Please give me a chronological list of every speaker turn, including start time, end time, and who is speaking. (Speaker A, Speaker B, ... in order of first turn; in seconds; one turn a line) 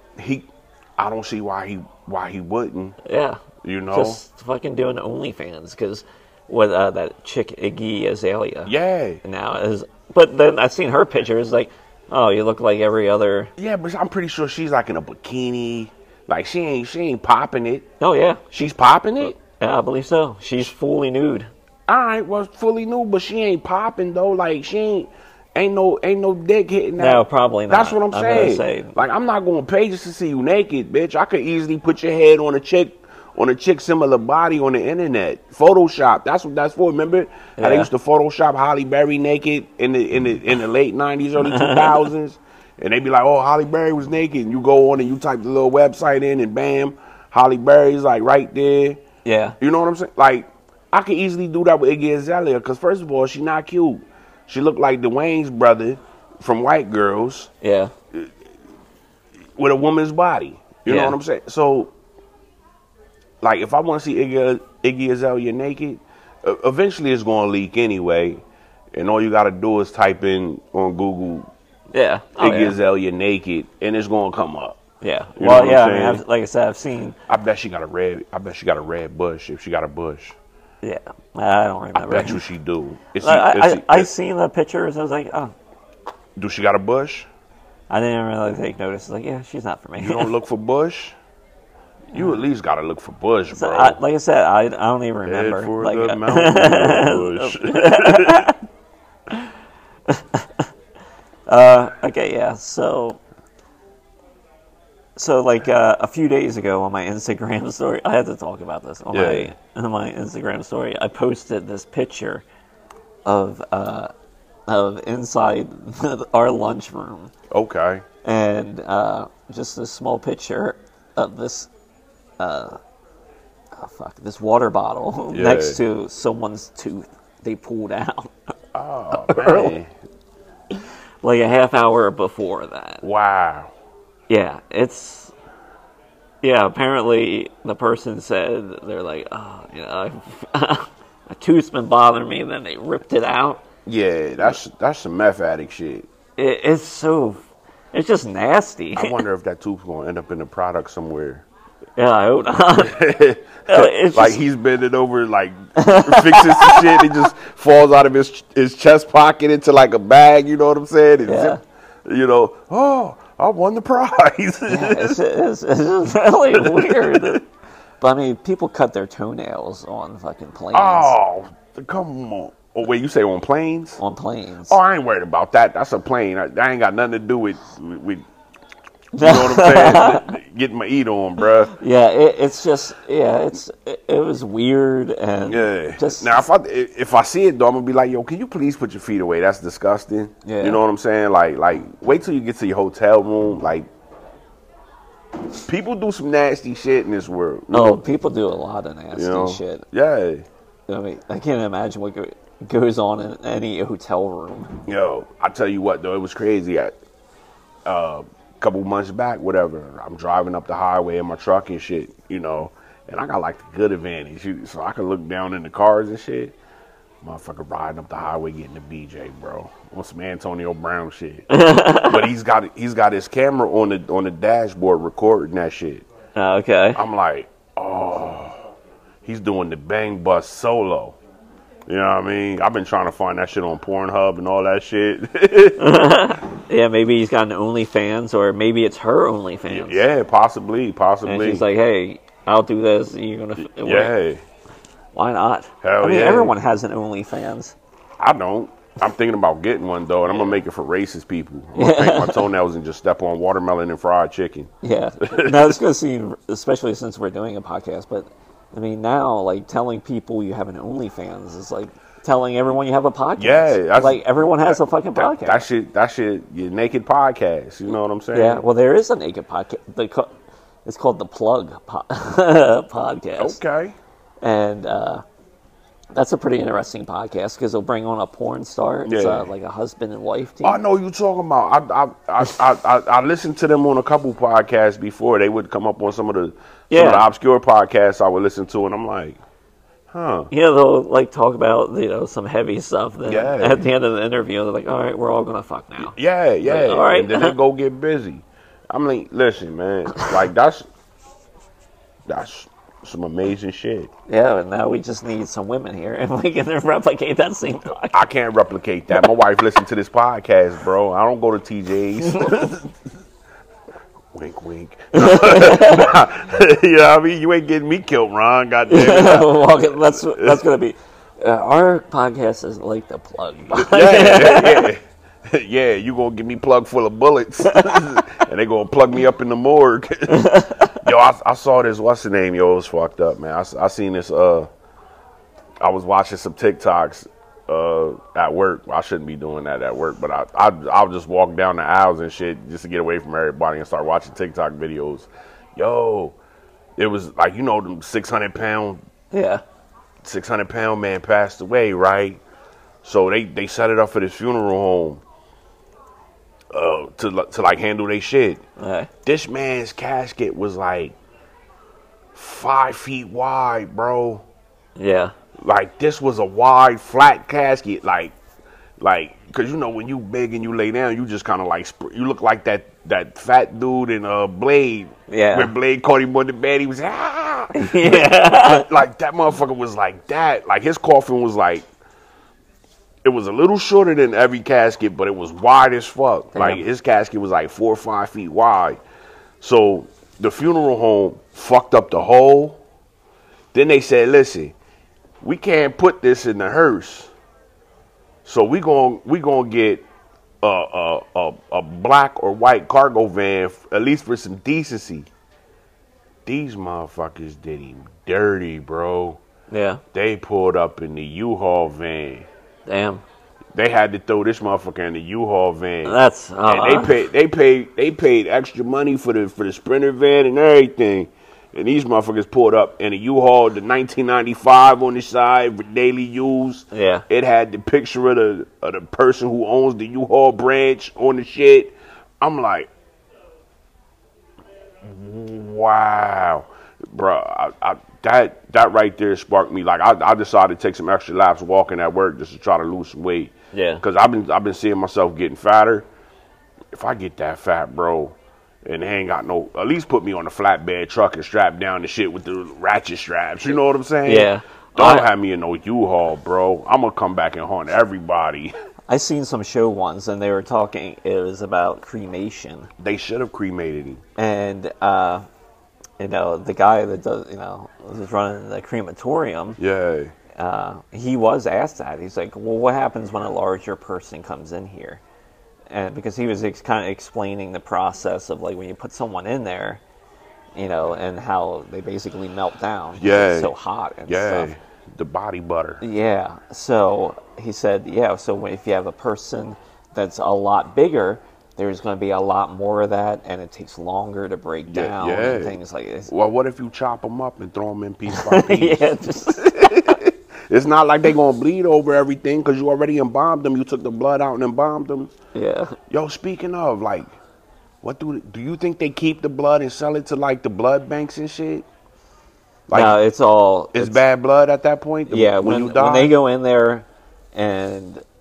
Speaker A: 0.2-3.0
Speaker B: 3.0-8.7
Speaker A: 3.6-4.2
Speaker A: 8.7-9.2
Speaker B: 9.2-13.5
Speaker A: 13.6-17.9
Speaker B: 18.0-18.5
Speaker A: 18.5-19.4
Speaker B: 19.4-21.5
Speaker A: 21.9-49.0
Speaker B: 27.0-29.0
Speaker B: 37.6-37.9
Speaker B: 41.4-42.1
Speaker B: 49.2-49.6
Speaker A: 49.6-57.5
Speaker B: 57.6-57.9
Speaker A: 59.6-61.9
Speaker B: 60.9-61.2
Speaker A: 63.4-71.5
Speaker B: 71.9-72.8
Speaker A: 72.4-74.8
Speaker B: 75.0-77.2
Speaker A: 75.4-76.2
Speaker A: 77.3-80.4
Speaker B: 80.8-82.4
Speaker A: 82.0-84.1
Speaker B: 83.2-85.5
Speaker A: 86.4-87.3
Speaker B: 87.9-90.3
Speaker A: 90.0-91.2
Speaker A: 92.1-94.0
Speaker B: 93.5-98.6
Speaker A: 95.3-98.5
Speaker B: 100.1-100.7
Speaker B: 101.5-103.2
Speaker B: 105.2-112.5
Speaker A: 109.1-109.5
Speaker B: 113.2-114.1
Speaker B: 114.7-117.3
Speaker A: 117.5-118.0
Speaker B: 118.2-121.7
Speaker B: 122.4-122.8
Speaker B: 123.8-128.3
Speaker A: 125.3-125.8
Speaker A: 128.7-129.9
Speaker B: 129.1-129.8
Speaker B: 130.7-133.0
Speaker A: 133.0-133.7
Speaker B: 134.3-135.3
Speaker B: 136.4-143.6
Speaker A: 143.9-146.1
Speaker B: 146.4-149.2
Speaker A: 149.0-151.4
Speaker B: 152.0-153.0
Speaker A: 152.8-165.2
Speaker B: 153.7-154.4
Speaker B: 155.8-157.2
Speaker B: 161.2-161.6
Speaker B: 164.7-167.4
Speaker A: 166.6-167.4
Speaker B: 168.0-171.2
Speaker A: 170.7-174.0
Speaker B: 174.0-174.8
Speaker A: 174.7-178.2
Speaker B: 179.2-180.3
Speaker A: 179.2-181.7
Speaker B: 181.7-186.4
Speaker A: 185.5-193.9
Speaker B: 190.4-190.8
Speaker A: 195.7-198.0
Speaker B: 197.7-199.8
Speaker A: 199.1-200.5
Speaker B: 200.9-204.7
Speaker A: 204.9-206.9
Speaker A: 207.8-216.6
Speaker A: 217.2-221.5
Speaker B: 221.5-222.3
Speaker A: 222.0-226.1
Speaker B: 226.3-227.0
Speaker A: 227.0-228.6
Speaker A: 229.2-231.2
Speaker A: 231.9-235.8
Speaker B: 235.8-240.1
Speaker A: 239.7-241.6
Speaker B: 241.2-244.1
Speaker A: 243.7-244.4
Speaker B: 245.2-247.8
Speaker A: 245.8-246.5
Speaker A: 248.2-255.8
Speaker B: 251.8-252.5
Speaker B: 254.8-265.6
Speaker A: 263.4-268.6
Speaker B: 268.3-273.6
Speaker A: 273.4-274.0
Speaker B: 274.4-275.2
Speaker B: 276.1-280.8
Speaker A: 279.1-279.5
Speaker A: 280.6-289.4
Speaker B: 286.9-287.3
Speaker A: 290.1-290.5
Speaker B: 290.5-297.6
Speaker A: 293.3-293.9
Speaker A: 296.0-300.9
Speaker A: 302.3-304.1
Speaker B: 304.3-308.2
Speaker A: 308.1-312.9
Speaker B: 312.2-312.8
Speaker A: 314.3-320.6
Speaker B: 315.1-316.2
Speaker B: 318.9-324.9
Speaker A: 323.7-334.7
Speaker B: 327.7-328.0
Speaker B: 330.3-331.1
Speaker A: 335.8-346.4
Speaker A: 347.0-349.0
Speaker B: 349.3-349.6
Speaker A: 350.2-352.4
Speaker A: 353.0-355.2
Speaker A: 356.7-358.6
Speaker B: 358.8-359.1
Speaker A: 359.2-361.2
Speaker A: 362.3-364.4
Speaker B: 365.0-365.3
Speaker A: 365.6-368.4
Speaker A: 369.0-381.9
Speaker B: 375.3-375.7
Speaker B: 377.8-378.9
Speaker A: 383.2-389.0
Speaker B: 386.5-386.8
Speaker A: 389.6-392.8
Speaker A: 393.7-394.8
Speaker A: 395.4-397.3
Speaker A: 398.4-400.1
Speaker A: 400.6-405.3
Speaker A: 406.4-409.4
Speaker B: 409.7-410.0
Speaker A: 410.1-412.5
Speaker B: 412.9-413.2
Speaker A: 413.7-432.9
Speaker B: 416.1-417.2
Speaker B: 426.9-427.2
Speaker A: 435.0-446.1
Speaker B: 443.7-444.0
Speaker A: 446.9-458.7
Speaker B: 454.3-455.3
Speaker B: 459.1-462.9
Speaker A: 463.0-464.2
Speaker B: 464.4-465.4
Speaker B: 466.2-469.8
Speaker A: 469.8-470.3
Speaker B: 470.6-475.2
Speaker B: 475.9-480.0
Speaker B: 480.8-484.7
Speaker A: 483.2-483.7
Speaker A: 484.3-486.0
Speaker B: 486.0-496.3
Speaker A: 494.9-505.3
Speaker B: 498.3-500.1
Speaker B: 505.6-506.0
Speaker A: 506.1-507.3
Speaker A: 508.0-511.9
Speaker A: 512.9-513.2
Speaker B: 512.9-514.2
Speaker A: 513.9-516.3
Speaker B: 515.3-518.2